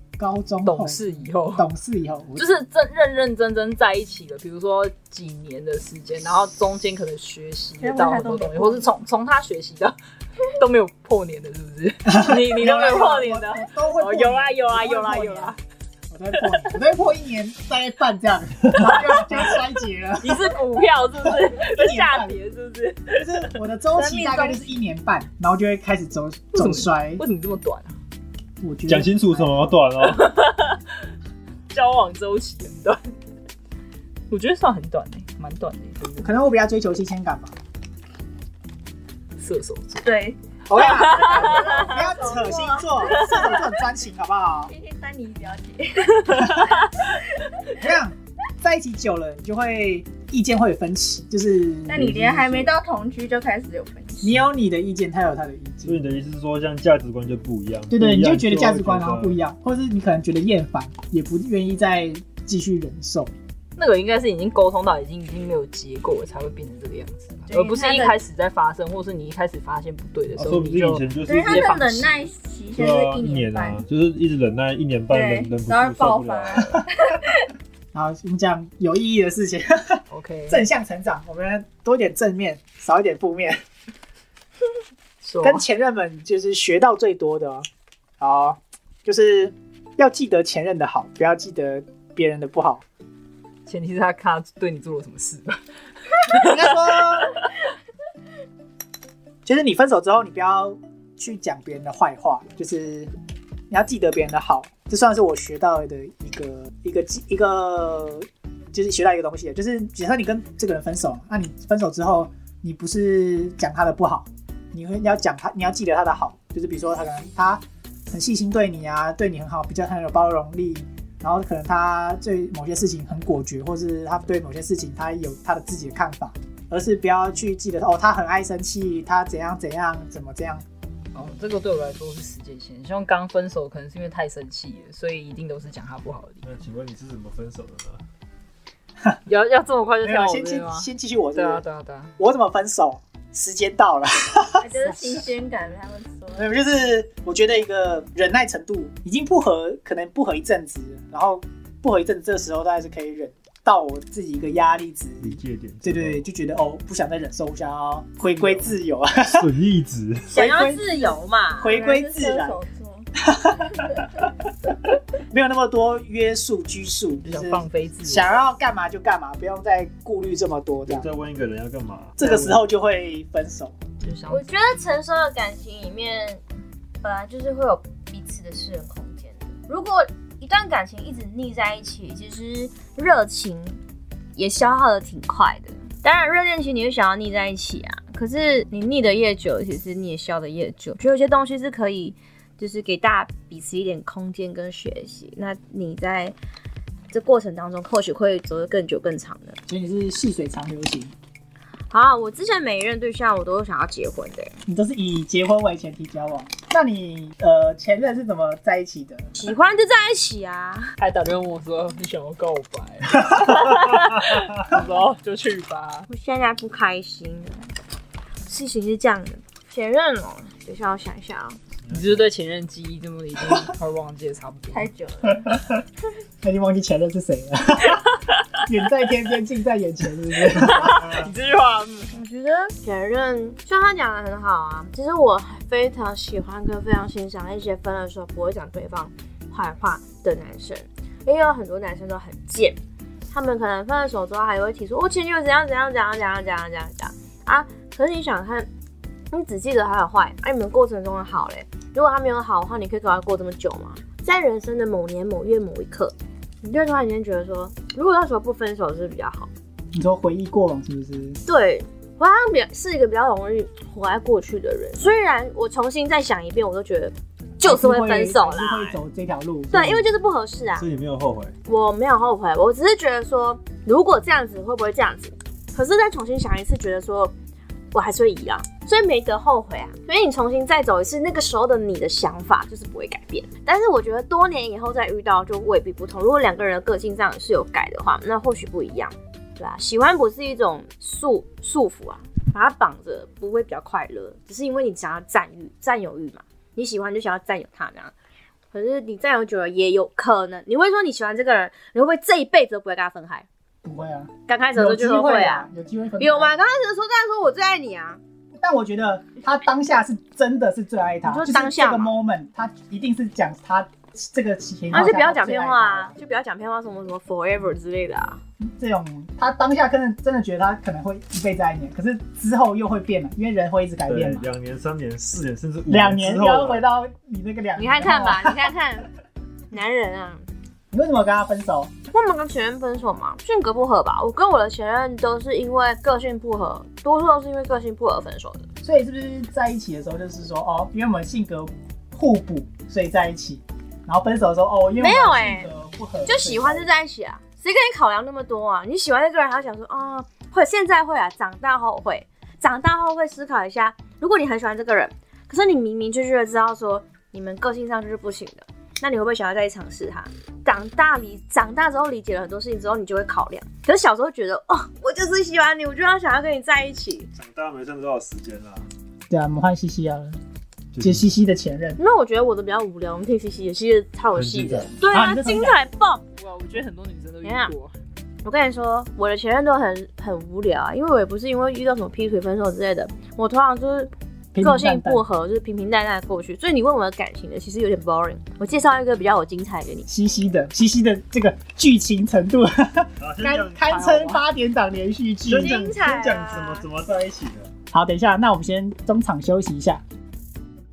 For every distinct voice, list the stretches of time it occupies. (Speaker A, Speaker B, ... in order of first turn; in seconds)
Speaker A: 0.2-2.5, 12.1-15.6, 16.1-20.6, 21.2-22.4, 23.1-27.2, 28.6-29.7, 36.2-37.5, 40.7-44.7, 47.7-52.7, 54.2-56.0, 57.9-63.3, 77.9-83.6, 85.4-87.7, 88.2-92.8, 96.3-97.3, 99.4-103.1, 103.7-130.6, 140.0-141.6, 142.2-145.2, 146.3-159.5, 160.3-162.6, 163.2-164.2, 165.2-171.1, 172.2-173.7, 199.7-201.1, 204.7-209.3, 226.4-228.0, 228.7-231.2, 259.9-261.4, 267.6-270.1, 303.8-306.5, 308.6-316.1, 318.6-324.5, 325.9-328.7, 330.9-331.9, 338.8-346.9, 369.3-370.4, 371.0-372.0, 375.1-375.8, 384.5-385.2, 390.1-395.8, 397.9-400.0
Speaker B: 0.6-1.7, 2.4-9.9, 10.5-15.6, 20.2-23.5, 26.5-27.9, 30.0-30.8, 31.7-33.0, 34.3-36.3, 39.4-40.1, 40.8-41.9, 46.2-46.9, 63.8-72.3, 80.1-80.7, 85.2-85.6, 93.7-97.3, 131.1-136.4, 139.2-142.1, 167.2-168.4, 174.0-174.4, 211.0-216.1, 221.9-224.9, 228.1-228.6, 230.5-232.1, 376.3-377.9, 393.9-394.4
Speaker C: 7.8-8.9, 23.9-24.6, 40.0-40.4, 41.1-43.7, 44.7-47.8, 51.9-54.4, 67.7-68.1, 71.2-73.8, 75.1-77.5, 144.6-146.5, 161.6-163.1, 163.7-164.1, 224.7-225.6
Speaker D: 28.9-30.3, 55.8-59.4, 70.4-71.8, 72.7-76.8, 136.4-138.0, 155.2-156.2, 159.2-160.4, 170.9-172.6, 221.8-222.2, 270.8-271.5, 324.1-326.8, 367.3-368.9, 370.9-371.3, 374.3-374.9, 393.2-394.0, 395.4-397.7
Speaker E: 41.8-42.3, 67.5-68.1, 160.3-161.8, 174.3-176.4, 177.0-183.8, 184.3-196.3, 197.1-199.6, 201.9-204.5, 209.3-210.9, 216.1-217.7, 218.5-221.6, 232.1-242.8, 243.3-248.7, 249.3-259.5, 261.4-269.0, 269.7-270.8, 271.6-277.3, 277.9-298.1, 298.7-303.4, 304.5-305.7, 306.2-308.2, 311.2-312.1, 314.9-318.4, 327.8-329.1, 329.7-330.4, 332.1-338.7, 345.0-345.7, 346.2-367.3, 372.0-376.2, 377.4-377.7, 378.4-390.1, 395.5-396.9